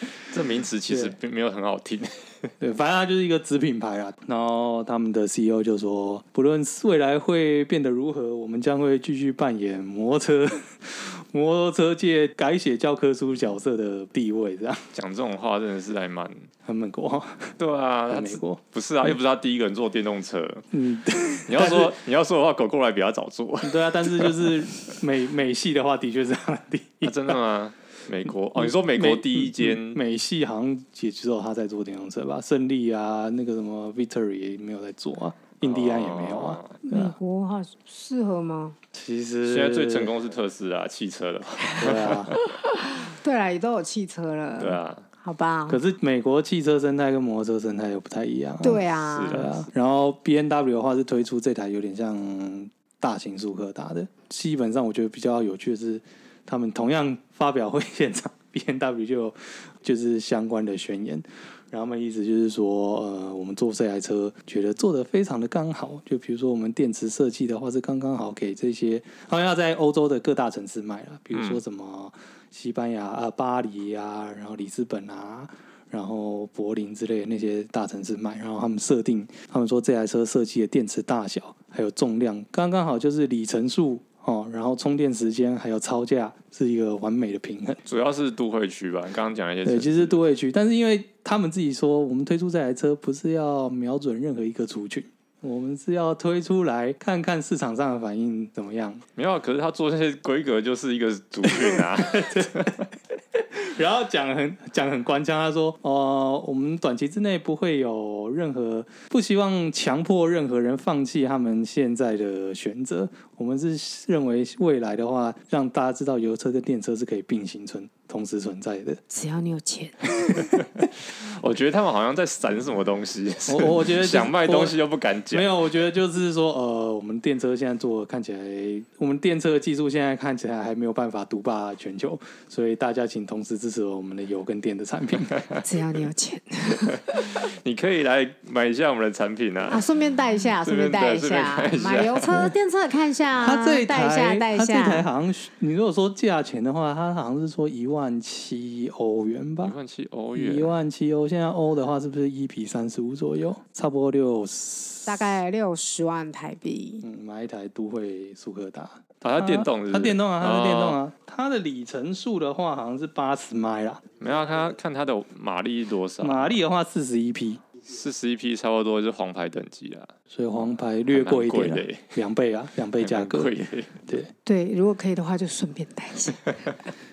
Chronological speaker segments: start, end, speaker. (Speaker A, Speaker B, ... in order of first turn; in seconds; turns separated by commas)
Speaker A: 0.3-2.5, Speaker B: 0.9-1.2, Speaker B: 2.6-14.9, Speaker A: 14.9-16.5, Speaker B: 16.6-17.6, Speaker A: 17.6-20.6, Speaker B: 18.1-19.1, Speaker B: 20.7-22.0, Speaker A: 21.5-24.5, Speaker B: 23.6-27.4, Speaker A: 27.0-30.0, Speaker B: 28.5-37.1, Speaker A: 35.6-36.8, Speaker C: 36.9-38.8, Speaker B: 38.9-40.1, Speaker A: 39.4-42.4, Speaker B: 41.8-42.4, Speaker C: 42.4-45.8, Speaker A: 44.6-45.0, Speaker B: 45.7-87.8, Speaker C: 48.6-49.5, Speaker A: 49.1-49.5, Speaker A: 71.3-71.6, Speaker A: 87.8-90.2, Speaker B: 89.6-99.0, Speaker A: 99.2-102.8, Speaker B: 101.4-119.0, Speaker C: 119.1-120.6, Speaker A: 120.8-125.5, Speaker B: 123.5-124.8, Speaker B: 125.3-135.4, Speaker C: 135.6-137.4, Speaker A: 136.8-139.8, Speaker C: 139.7-145.1, Speaker A: 140.6-142.4, Speaker B: 143.4-149.8, Speaker A: 149.6-150.8, Speaker B: 150.3-155.2, Speaker C: 155.1-157.0, Speaker B: 157.0-164.0, Speaker A: 159.2-161.0, Speaker A: 164.2-166.6, Speaker B: 166.2-167.6, Speaker A: 167.9-170.1, Speaker B: 170.3-173.5, Speaker A: 171.1-172.2, Speaker A: 173.0-174.0, Speaker C: 174.4-176.8